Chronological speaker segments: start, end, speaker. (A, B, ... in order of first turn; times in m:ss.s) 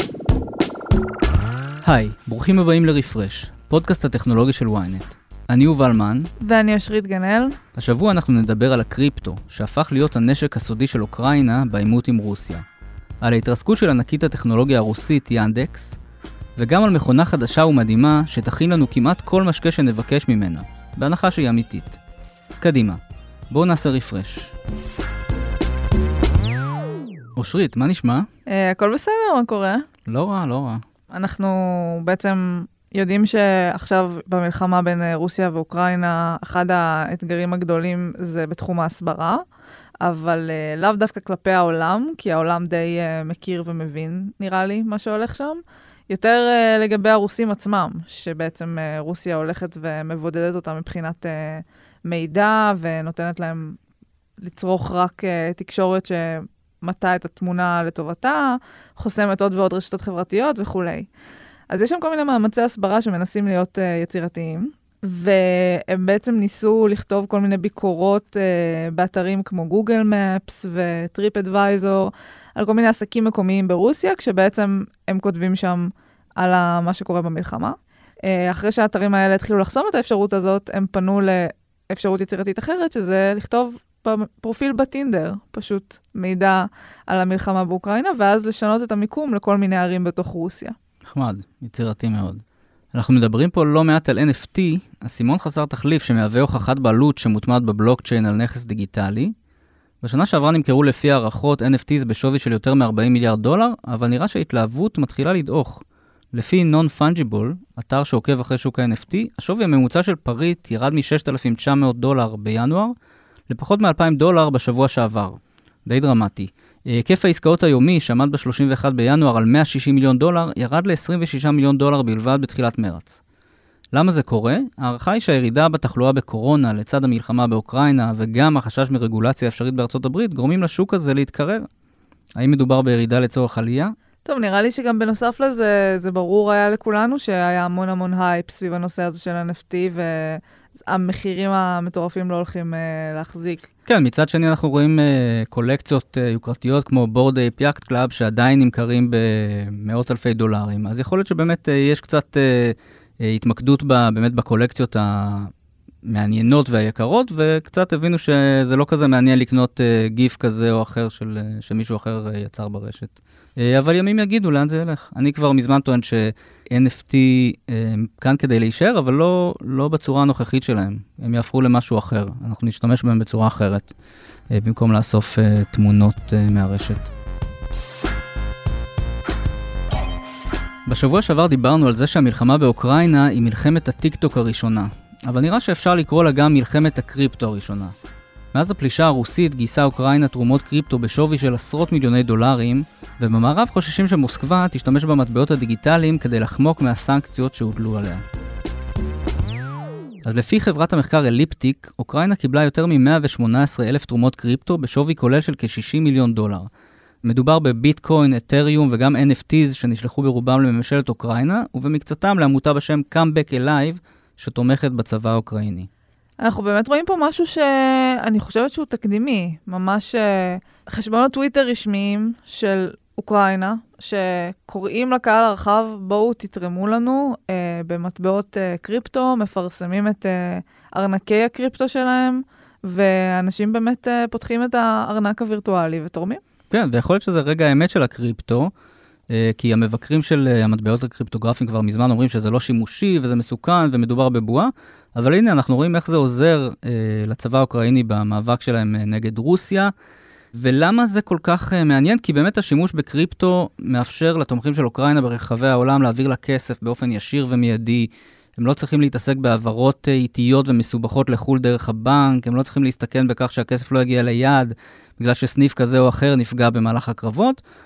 0:01.8-0:06.3 A
0:06.4-0:07.6 B
0:07.7-0:12.6 A
0:13.2-0:16.0 A
0:16.6-0:22.0 A
0:22.6-0:24.5 A
0:27.4-0:28.3 A
0:28.5-0:29.8 B
0:30.1-0:30.8 A
0:31.1-0:39.4 B
0:40.0-0:53.8 B
0:54.4-1:01.1 B
1:01.7-1:30.7 B
1:31.0-1:39.3 A
1:40.0-1:52.9 A
1:53.5-2:03.2 A
2:03.9-2:11.7 A
2:12.3-2:13.9 A
2:14.2-2:23.7 B
2:23.8-2:35.5 A
2:36.0-2:53.9 A
2:54.5-2:57.1 A
3:00.8-3:07.9 A
3:08.5-3:18.2 A
3:20.2-3:26.7 A
3:27.2-3:35.9 A
3:36.4-3:56.4 B
3:56.7-3:58.7 A
3:59.3-4:09.9 A
4:10.5-4:27.6 A